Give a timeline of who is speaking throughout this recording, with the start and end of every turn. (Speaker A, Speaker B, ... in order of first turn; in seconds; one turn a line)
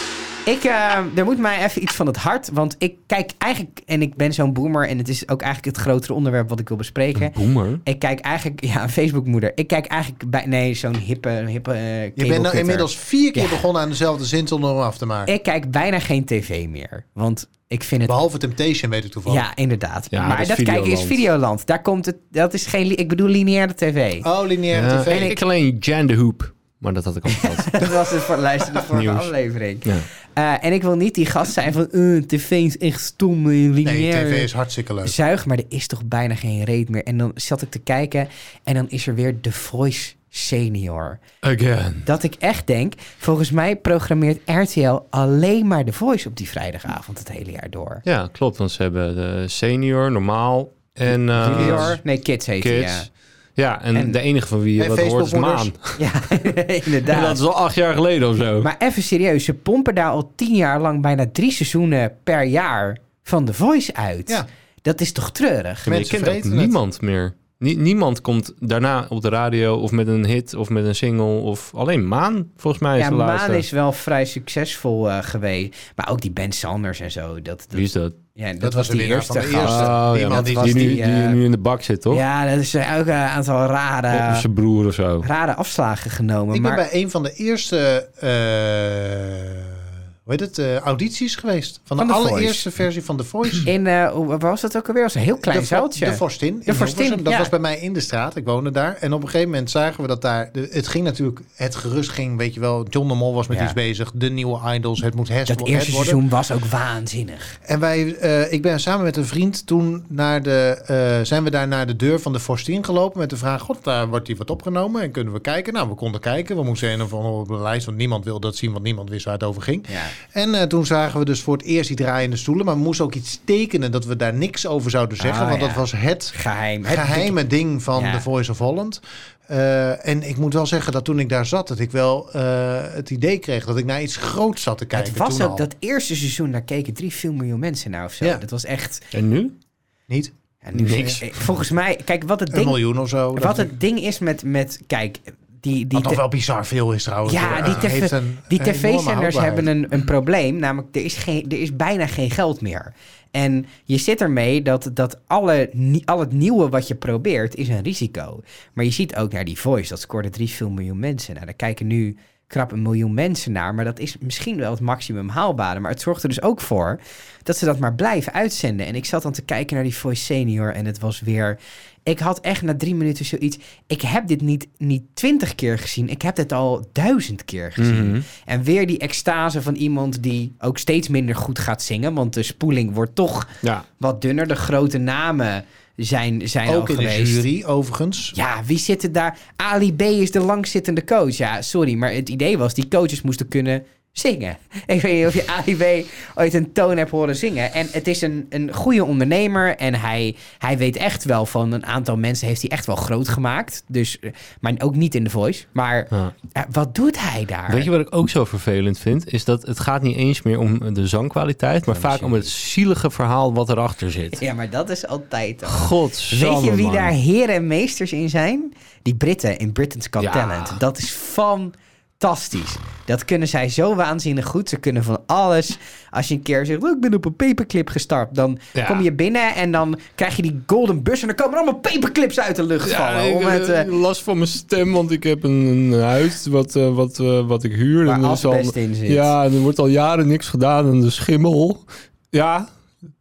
Speaker A: 0.5-13.7
Speaker B: 7.2-7.8
Speaker C: 12.2-15.3
Speaker A: 15.3-18.2
Speaker C: 18.0-19.5
Speaker A: 19.3-24.3
Speaker B: 20.1-21.2
Speaker C: 24.2-25.4
Speaker B: 24.7-27.9
Speaker A: 25.1-25.4
Speaker A: 27.3-34.5
Speaker B: 28.9-29.3
Speaker C: 33.8-35.2
Speaker A: 35.0-41.2
Speaker B: 41.4-42.1
Speaker A: 42.0-48.0
Speaker B: 48.0-52.0
Speaker A: 51.4-53.1
Speaker C: 51.4-52.0
Speaker B: 52.6-56.0
Speaker C: 54.8-55.7
Speaker A: 56.0-57.4
Speaker B: 57.1-58.7
Speaker A: 58.6-66.0
Speaker C: 65.9-66.8
Speaker B: 65.9-73.7
Speaker A: 73.0-81.4
Speaker B: 77.7-78.2
Speaker C: 78.6-81.0
Speaker B: 79.6-82.2
Speaker A: 82.1-84.5
Speaker B: 84.1-85.3
Speaker A: 85.2-86.8
Speaker C: 86.5-93.7
Speaker A: 92.0-92.7
Speaker A: 93.6-97.5
Speaker C: 95.5-106.2
Speaker A: 103.5-103.8
Speaker A: 105.5-107.6
Speaker C: 107.7-135.7
Speaker A: 119.9-120.2
Speaker A: 125.2-127.3
Speaker A: 127.9-128.2
Speaker A: 134.9-139.1
Speaker B: 139.1-139.5
Speaker C: 140.1-141.2
Speaker A: 140.6-142.8
Speaker B: 140.7-141.4
Speaker C: 142.5-143.7
Speaker A: 143.3-146.2
Speaker C: 145.9-149.7
Speaker A: 147.3-187.4
Speaker B: 177.8-178.2
Speaker C: 186.7-188.4
Speaker A: 188.3-207.9
Speaker B: 207.7-214.4
Speaker A: 211.9-212.5
Speaker A: 214.4-233.9
Speaker B: 215.7-217.1
Speaker B: 220.2-220.8
Speaker B: 228.8-229.1
Speaker B: 232.8-242.7
Speaker A: 238.1-239.3